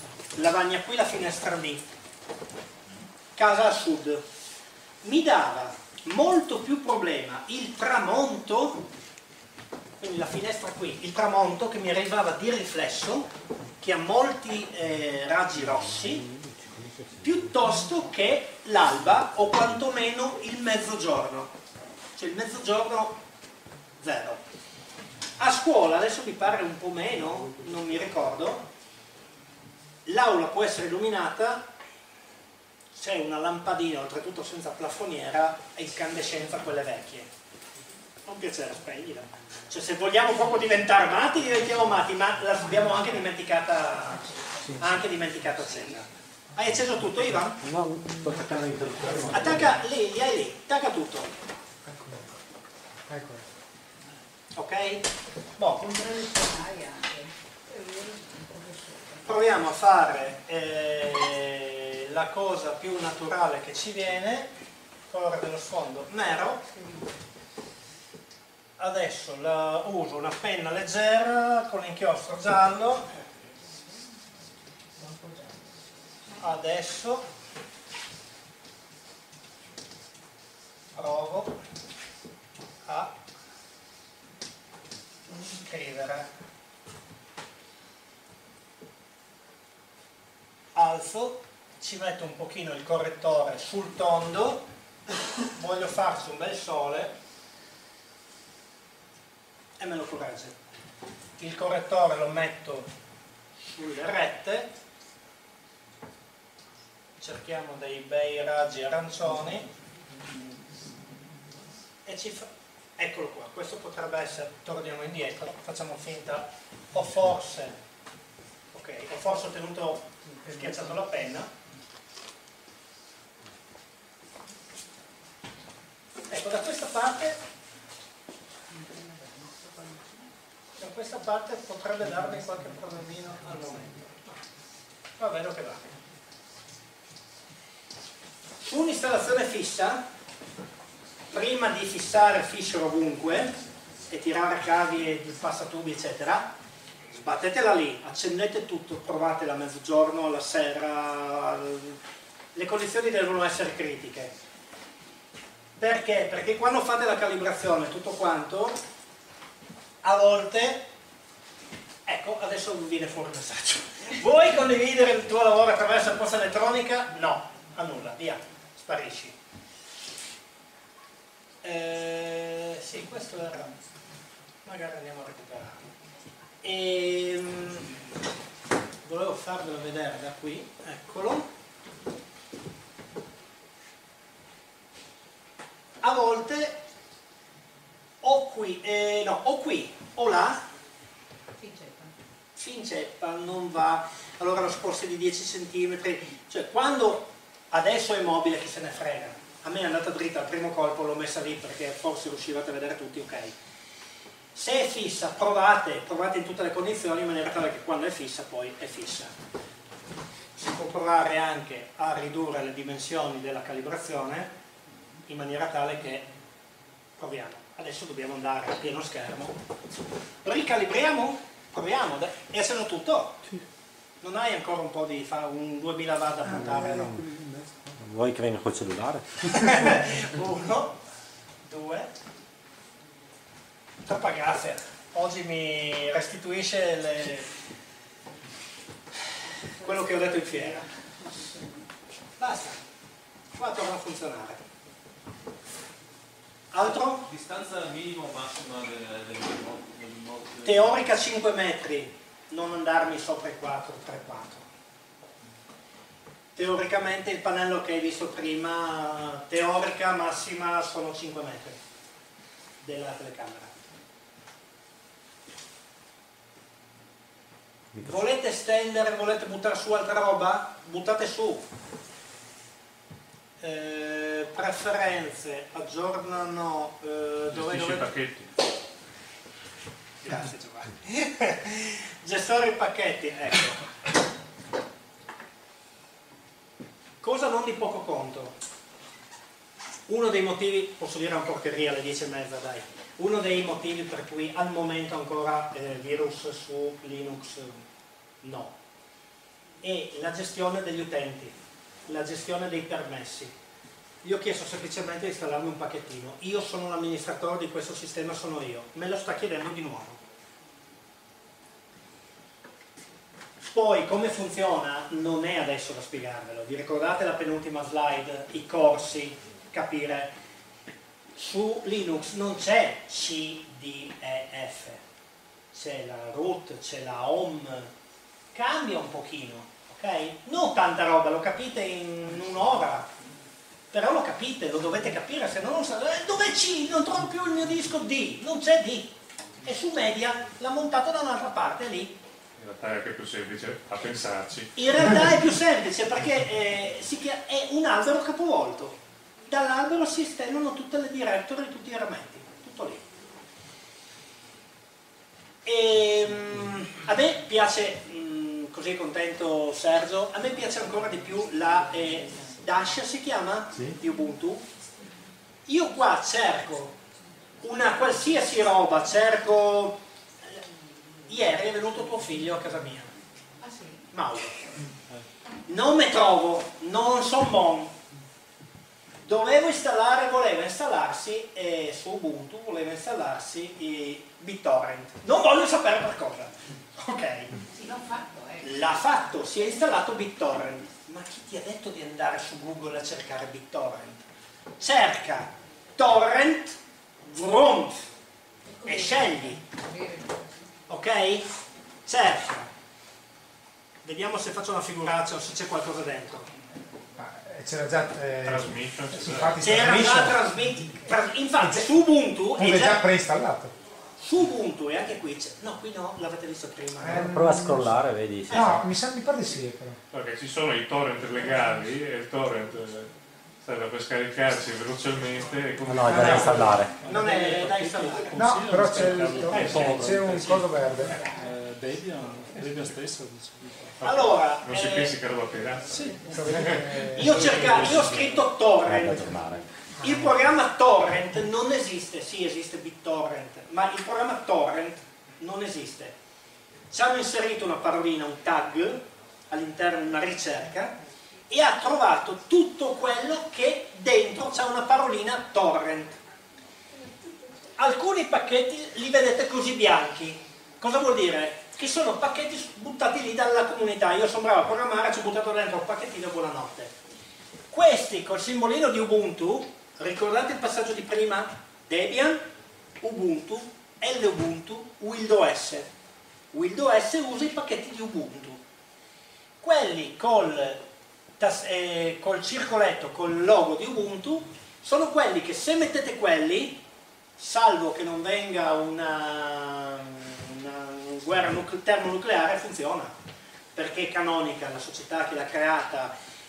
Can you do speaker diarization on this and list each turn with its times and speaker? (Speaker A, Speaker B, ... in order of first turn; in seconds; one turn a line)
Speaker A: 0.3-1.8
Speaker A: 3.4-4.2
Speaker A: 5.0-8.8
Speaker A: 10.0-16.2
Speaker B: 15.7-17.4
Speaker A: 17.2-21.5
Speaker A: 22.2-23.2
Speaker A: 24.0-24.4
Speaker A: 25.4-28.7
Speaker A: 30.1-31.7
Speaker A: 33.0-37.3
Speaker A: 38.2-47.6
Speaker B: 47.6-49.7
Speaker C: 48.3-49.8
Speaker A: 49.3-51.4
Speaker C: 51.9-52.2
Speaker C: 53.1-53.5
Speaker A: 54.6-55.9
Speaker D: 55.8-59.3
Speaker A: 59.2-64.5
Speaker A: 65.1-66.7
Speaker D: 66.7-67.0
Speaker A: 68.8-73.1
Speaker D: 75.0-75.6
Speaker A: 76.4-77.3
Speaker A: 81.0-81.5
Speaker A: 82.9-83.1
Speaker A: 85.3-86.3
Speaker A: 90.8-94.7
Speaker A: 95.5-97.1
Speaker A: 99.8-100.6
Speaker A: 101.4-102.9
Speaker A: 103.6-104.7
Speaker A: 107.2-109.7
Speaker A: 112.1-117.8
Speaker A: 118.7-121.5
Speaker A: 126.3-127.4
Speaker D: 128.8-130.0
Speaker A: 130.8-134.2
Speaker A: 135.2-135.9
Speaker A: 138.6-140.0
Speaker A: 141.3-143.5
Speaker A: 144.1-146.5
Speaker A: 147.2-152.0
Speaker A: 152.6-154.3
Speaker A: 155.8-158.8
Speaker A: 160.0-160.9
Speaker A: 162.1-169.4
Speaker A: 171.6-173.7
Speaker A: 174.7-175.8
Speaker A: 176.6-178.0
Speaker A: 179.1-181.5
Speaker A: 186.0-186.8
Speaker A: 188.2-190.6
Speaker D: 191.6-192.2
Speaker A: 192.6-203.6
Speaker A: 204.6-209.3
Speaker A: 210.6-214.5
Speaker A: 215.3-216.3
Speaker A: 217.2-219.6
Speaker A: 220.4-223.5
Speaker A: 224.2-227.2
Speaker B: 228.0-229.9
Speaker A: 229.5-231.0
Speaker A: 231.7-232.1
Speaker A: 234.1-237.5
Speaker A: 239.8-240.8
Speaker A: 242.4-242.8
Speaker A: 243.6-244.6
Speaker A: 246.7-247.3
Speaker E: 247.3-251.0
Speaker A: 250.7-254.7
Speaker A: 256.6-261.8
Speaker A: 262.8-263.7
Speaker A: 268.0-271.6
Speaker A: 273.6-278.1
Speaker F: 277.5-278.5
Speaker A: 280.2-283.9
Speaker A: 287.2-288.6
Speaker A: 290.1-297.8
Speaker A: 298.4-298.8
Speaker A: 299.8-301.6
Speaker A: 302.1-303.5
Speaker A: 304.2-310.2
Speaker A: 313.6-320.3
Speaker A: 321.4-325.0
Speaker A: 325.7-327.9
Speaker A: 328.5-333.1
Speaker A: 333.9-342.2
Speaker F: 342.6-344.8
Speaker A: 344.8-353.1
Speaker A: 355.6-364.6
Speaker A: 365.7-367.0
Speaker A: 367.6-370.6
Speaker A: 371.3-373.1
Speaker D: 373.6-374.0
Speaker A: 374.1-374.6
Speaker A: 375.7-377.9
Speaker A: 379.2-387.6
Speaker D: 387.7-388.7
Speaker A: 388.6-394.2
Speaker A: 394.8-398.1
Speaker D: 398.7-400.7
Speaker A: 398.9-399.6
Speaker A: 400.9-401.5
Speaker A: 402.1-402.7
Speaker A: 404.0-406.5
Speaker C: 407.2-410.5
Speaker F: 408.4-409.9
Speaker A: 409.6-413.1
Speaker C: 412.6-413.7
Speaker A: 414.2-417.4
Speaker C: 417.0-418.0
Speaker B: 417.1-418.8
Speaker A: 418.5-418.8
Speaker C: 418.5-420.0
Speaker F: 420.1-426.8
Speaker B: 425.9-427.0
Speaker C: 426.1-426.8
Speaker G: 426.1-433.9
Speaker A: 426.3-428.4
Speaker C: 428.3-431.2
Speaker A: 429.4-430.3
Speaker F: 434.0-437.1
Speaker A: 434.0-435.2
Speaker G: 435.9-436.2
Speaker C: 436.3-438.2
Speaker G: 436.8-437.9
Speaker A: 437.1-439.4
Speaker B: 438.8-439.6
Speaker A: 440.0-446.1
Speaker A: 446.9-450.9
Speaker A: 451.5-456.2
Speaker A: 457.8-466.9
Speaker A: 467.7-472.4
Speaker A: 473.0-475.9
Speaker A: 476.5-478.6
Speaker A: 479.6-480.8
Speaker A: 481.4-486.8
Speaker A: 487.4-493.1
Speaker A: 493.8-496.1